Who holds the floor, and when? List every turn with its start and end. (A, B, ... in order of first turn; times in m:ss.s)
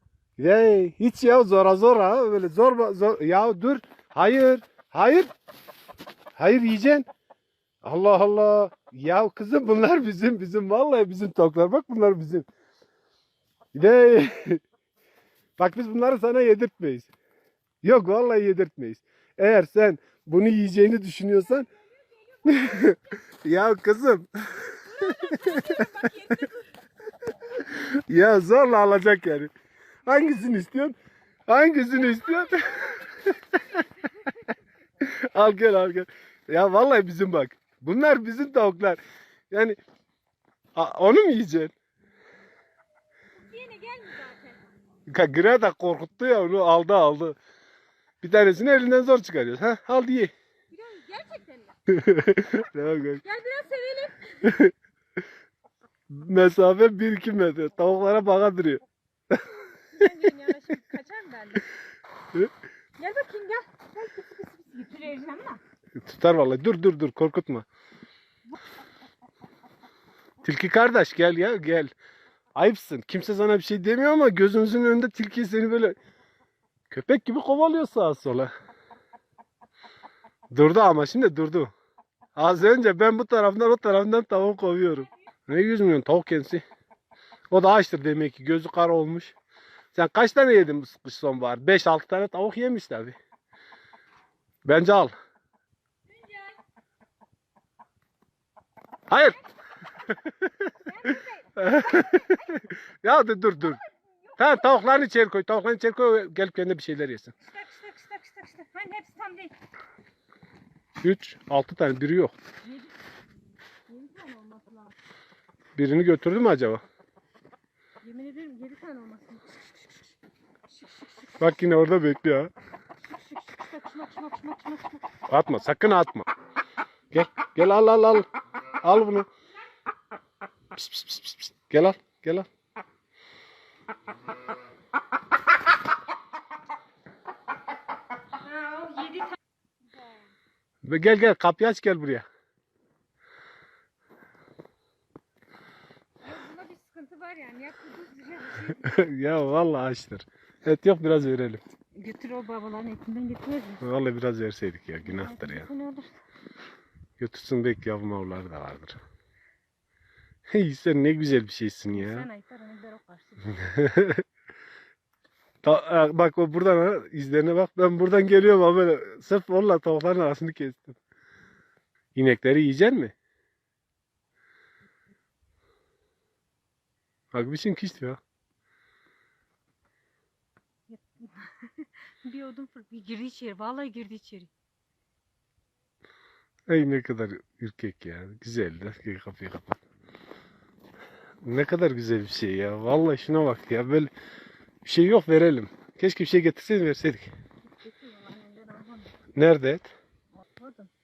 0:00.4-0:05.3 A
0:06.4-0:07.0 A
0:07.8-0:12.5 A
0:13.7-0:14.6 A
0:15.6-0:17.1 A
0:17.8-0:21.7 A
0:21.8-0:23.1 B
0:22.4-0:25.9 A
0:24.6-0:26.7 B
0:27.5-0:29.5 A
0:30.0-0:31.0 A
0:30.1-0:30.5 B
0:31.5-0:33.4 A
0:32.0-0:34.6 B
0:35.0-0:39.8 A
0:40.8-0:41.7 A
0:43.4-0:44.7 B
0:45.1-0:47.4 A
0:48.2-0:50.3 A
0:50.7-0:51.8 B
0:51.9-0:53.2 A
0:53.2-0:54.5 B
0:54.4-0:54.7 A
0:56.1-0:59.4 A
0:59.6-1:01.7 B
1:03.0-1:05.6 B
1:06.0-1:07.6 A
1:10.4-1:11.9 A
1:12.5-1:16.0 A
1:16.9-1:18.5 A
1:20.5-1:21.7 A
1:22.4-1:26.6 A
1:27.5-1:29.3 A
1:29.9-1:33.2 A
1:34.6-1:35.1 A
1:36.1-1:36.6 B
1:39.1-1:39.4 A
1:40.8-1:42.6 B
1:41.6-1:43.8 A
1:43.6-1:45.0 B
1:44.4-1:47.3 A
1:47.4-1:49.5 B
1:51.0-1:52.3 A
1:52.6-1:52.9 B
1:53.9-1:54.9 B
1:55.8-1:56.8 A
1:58.0-2:00.1 B
2:00.7-2:01.6 B
2:01.4-2:02.5 A
2:03.1-2:05.1 B
2:05.3-2:06.3 A
2:07.1-2:08.3 A
2:08.8-2:09.3 A
2:10.7-2:12.5 A
2:18.5-2:19.3 B
2:19.9-2:20.3 B
2:20.8-2:22.2 A
2:26.2-2:28.8 B
2:28.7-2:31.6 A
2:32.0-2:33.8 B
2:33.8-2:35.7 A
2:35.0-2:36.2 B
2:37.2-2:39.0 A
2:40.5-2:42.3 A
2:41.9-2:43.7 B
2:43.5-2:44.2 A
2:45.6-2:51.0 A
2:52.1-2:53.1 A
2:57.3-2:58.2 A
3:00.9-3:04.5 B
3:06.7-3:09.8 A
3:11.4-3:14.1 A
3:14.8-3:17.3 A
3:17.7-3:19.1 B
3:19.3-3:19.9 A
3:20.4-3:20.9 B